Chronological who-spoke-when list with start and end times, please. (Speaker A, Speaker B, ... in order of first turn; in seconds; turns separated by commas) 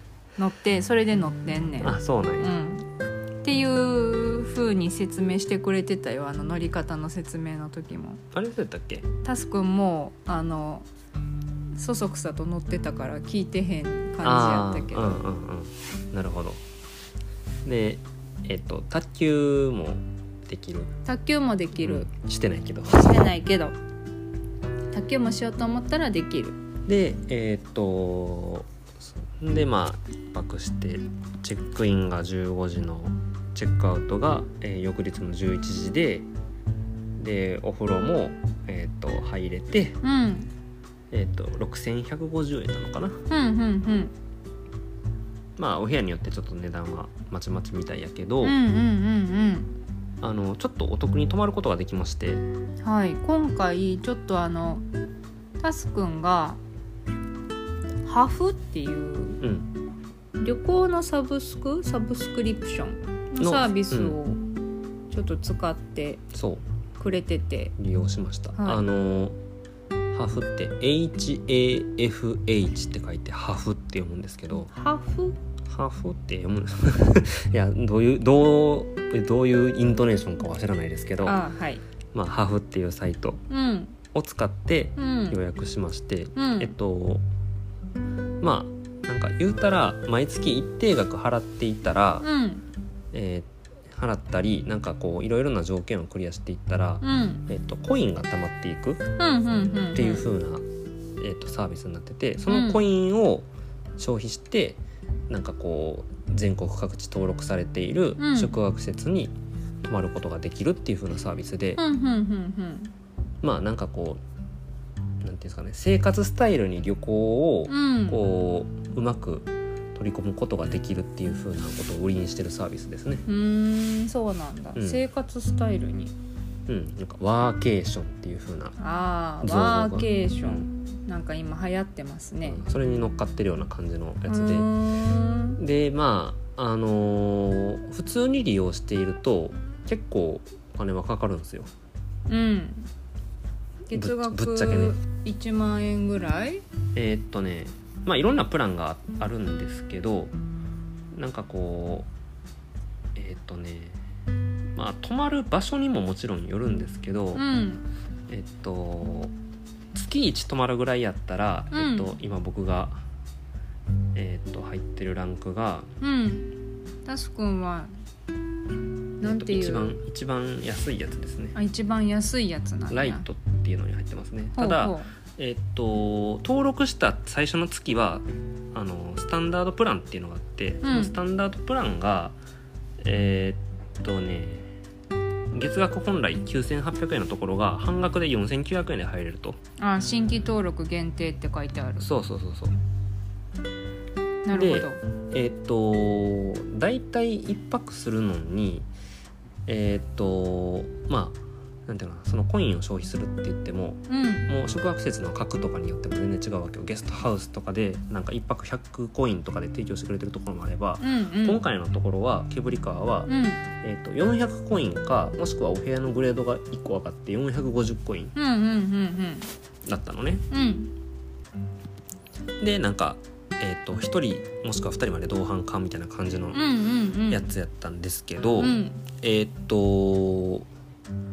Speaker A: 0.4-2.9, Speaker B: 1.8-2.5, Speaker A: 3.4-8.2, Speaker B: 8.3-9.1, Speaker A: 9.2-10.9, Speaker A: 11.8-15.2, Speaker B: 14.2-16.6, Speaker B: 17.6-20.9, Speaker A: 21.1-22.1, Speaker B: 21.8-23.2, Speaker A: 22.9-23.8, Speaker A: 24.9-26.6, Speaker B: 26.9-36.3, Speaker B: 37.2-40.0, Speaker A: 40.0-40.5, Speaker B: 41.1-43.2, Speaker A: 43.3-44.1, Speaker B: 45.6-48.6, Speaker A: 48.4-49.8, Speaker B: 50.2-52.4, Speaker A: 52.8-54.9, Speaker A: 55.6-56.6, Speaker A: 58.0-59.4, Speaker B: 59.4-59.7, Speaker A: 60.4-64.4, Speaker B: 63.4-64.2, Speaker A: 65.1-66.2, Speaker B: 66.3-66.6, Speaker A: 67.0-67.8, Speaker B: 67.8-69.4, Speaker A: 68.6-68.8, Speaker B: 70.1-74.7, Speaker A: 74.7-75.4, Speaker B: 75.7-81.4, Speaker A: 81.2-81.8, Speaker B: 82.1-83.4, Speaker A: 83.5-84.0, Speaker B: 84.1-87.2, Speaker A: 85.0-85.4, Speaker A: 86.3-86.7, Speaker B: 88.4-92.3, Speaker A: 92.2-92.6, Speaker B: 93.1-99.0, Speaker A: 97.0-97.5, Speaker A: 99.2-100.2, Speaker B: 99.9-100.7, Speaker B: 101.2-111.8, Speaker A: 102.5-102.8, Speaker A: 108.2-108.5, Speaker A: 111.8-112.9, Speaker B: 113.4-114.2, Speaker B: 115.2-123.2, Speaker A: 117.7-118.2, Speaker A: 123.3-126.1, Speaker B: 124.8-125.0, Speaker B: 126.7-128.8, Speaker A: 128.8-132.6, Speaker B: 129.4-130.7, Speaker B: 132.4-134.7, Speaker A: 134.3-135.6, Speaker B: 135.6-141.7, Speaker A: 142.3-142.9, Speaker A: 143.9-146.6, Speaker B: 143.9-145.0, Speaker B: 146.9-150.3, Speaker B: 151.1-152.1, Speaker B: 153.2-154.0, Speaker B: 154.8-157.4, Speaker A: 157.3-157.9, Speaker B: 158.3-159.3, Speaker B: 159.9-163.0, Speaker A: 161.7-162.1, Speaker B: 164.2-165.9, Speaker A: 166.0-166.6, Speaker A: 167.1-167.9, Speaker A: 169.2-170.0, Speaker B: 169.2-171.6, Speaker A: 171.6-173.3, Speaker B: 172.9-182.4, Speaker A: 174.6-175.1, Speaker A: 180.8-181.2, Speaker B: 183.0-184.7, Speaker B: 185.5-189.6, Speaker A: 189.8-192.1, Speaker B: 192.0-192.8, Speaker A: 194.4-195.0, Speaker B: 194.5-198.9, Speaker B: 199.7-218.3, Speaker A: 204.1-204.5, Speaker A: 211.0-211.6, Speaker A: 213.2-213.6, Speaker A: 218.3-219.5, Speaker B: 219.9-220.4, Speaker A: 220.5-220.9, Speaker B: 222.6-226.6, Speaker A: 226.5-227.4, Speaker B: 227.3-230.7, Speaker A: 228.6-229.0